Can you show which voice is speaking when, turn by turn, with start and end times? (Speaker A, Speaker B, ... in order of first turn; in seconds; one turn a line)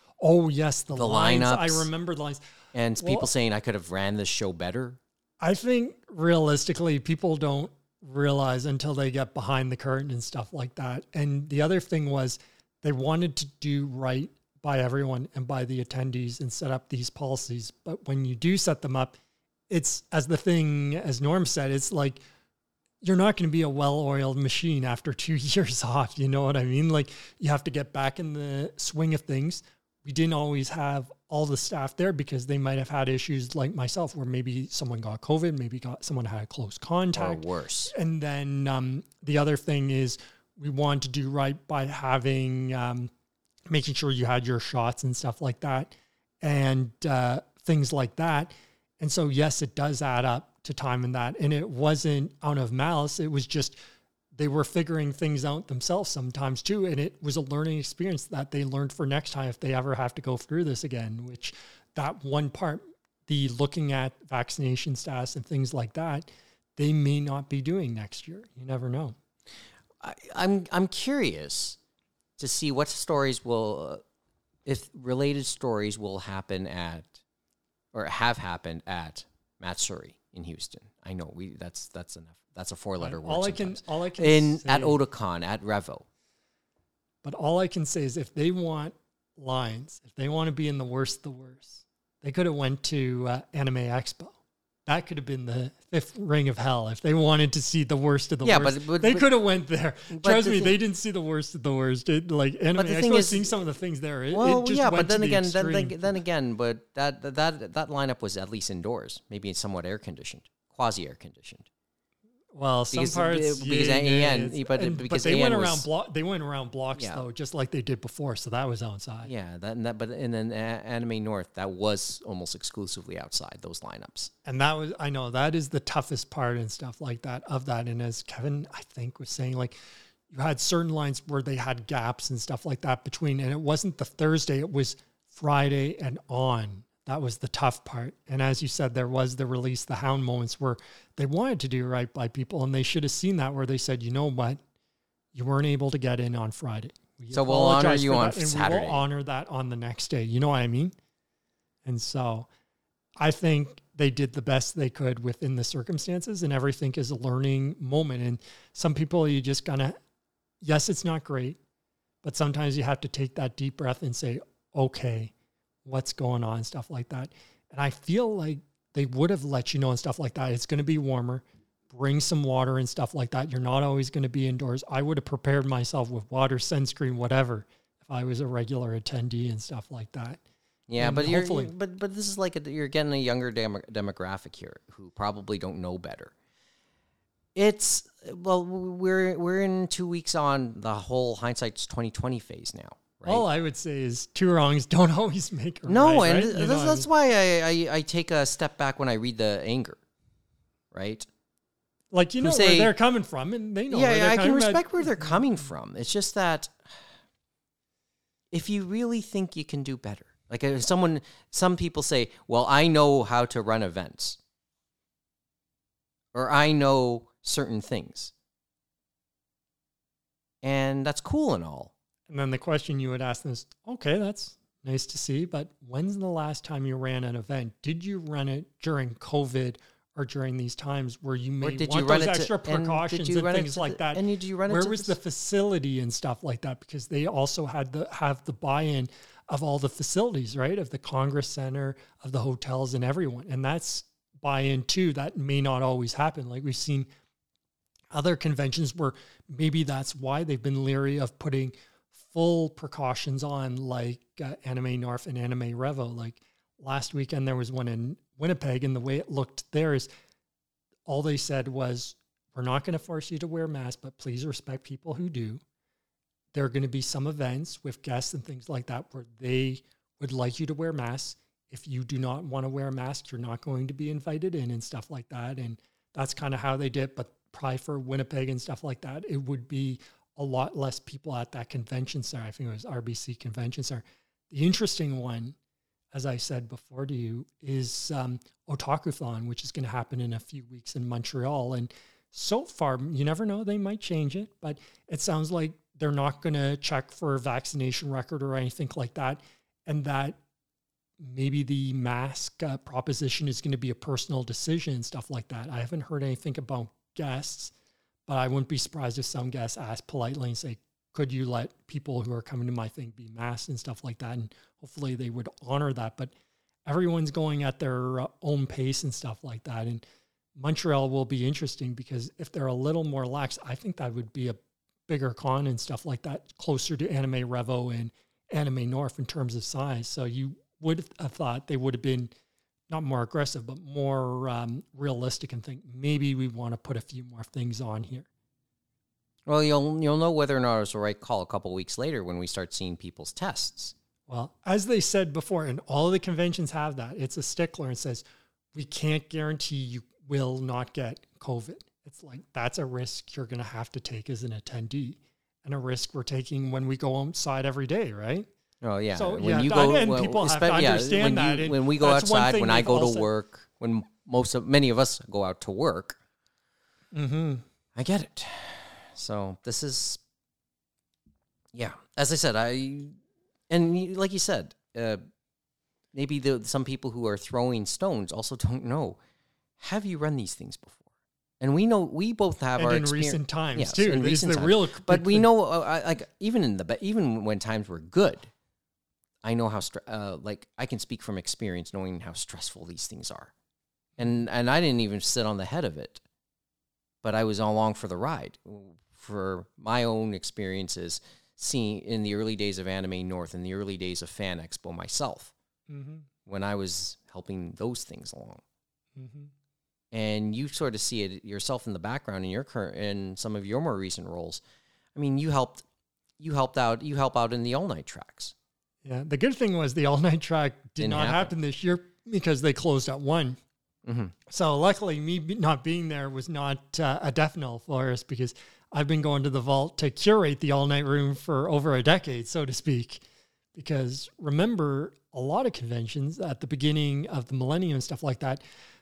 Speaker A: 0.2-2.4
Speaker B: 0.9-1.9
Speaker B: 2.7-5.0
Speaker A: 3.0-3.3
Speaker A: 5.4-19.2
Speaker A: 19.7-22.2
Speaker A: 23.0-43.1
Speaker B: 37.1-37.9
Speaker A: 43.7-53.8
Speaker A: 54.3-69.2
Speaker B: 70.0-71.8
Speaker B: 72.4-74.0
Speaker B: 74.7-77.2
Speaker B: 77.9-86.1
Speaker A: 83.0-85.0
Speaker A: 87.2-106.0
Speaker B: 98.4-99.3
Speaker B: 100.1-100.8
Speaker B: 102.8-103.6
Speaker B: 104.3-111.7
Speaker A: 112.5-119.3
Speaker B: 112.9-115.9
Speaker B: 117.0-117.2
Speaker B: 119.2-124.3
Speaker A: 124.5-129.8
Speaker A: 130.3-144.6
Speaker A: 145.3-150.9
Speaker B: 147.3-149.0
Speaker A: 151.8-152.5
Speaker A: 153.2-159.9
Speaker A: 160.6-161.6
Speaker A: 162.2-165.3
Speaker A: 165.8-180.4
Speaker B: 180.9-186.3
Speaker A: 181.0-181.7
Speaker B: 187.6-193.4
Speaker A: 193.3-197.1
Speaker B: 195.9-200.0
Speaker B: 200.9-201.3
Speaker A: 202.1-205.4
Speaker B: 202.4-202.9
Speaker B: 203.9-207.0
Speaker B: 208.5-214.4
Speaker B: 216.3-218.3
Speaker B: 220.6-221.9
Speaker A: 222.3-247.1
Speaker B: 231.6-235.2
Speaker A: 248.1-260.1
Speaker A: 261.1-265.6
Speaker A: 266.5-285.6
Speaker A: 286.1-300.4
Speaker A: 301.2-307.7
Speaker A: 308.3-316.3
Speaker A: 316.9-320.0
Speaker A: 320.6-332.3
Speaker A: 332.9-338.3
Speaker B: 339.5-343.9
Speaker A: 344.3-348.2
Speaker A: 348.7-358.5
Speaker B: 358.8-366.2
Speaker A: 359.1-363.3
Speaker A: 367.1-367.6
Speaker B: 368.0-370.2
Speaker B: 371.7-373.2
Speaker B: 373.7-375.2
Speaker B: 376.1-379.2
Speaker B: 379.8-381.0
Speaker B: 381.6-388.5
Speaker A: 382.8-385.5
Speaker B: 389.4-393.5
Speaker B: 394.2-396.2
Speaker B: 397.2-405.5
Speaker A: 405.9-406.3
Speaker B: 406.5-408.6
Speaker A: 409.2-409.5
Speaker B: 410.1-414.6
Speaker B: 415.1-415.8
Speaker B: 416.4-418.5
Speaker A: 419.0-423.6
Speaker B: 421.0-421.5
Speaker B: 424.1-424.4
Speaker A: 424.5-433.2
Speaker A: 433.8-438.6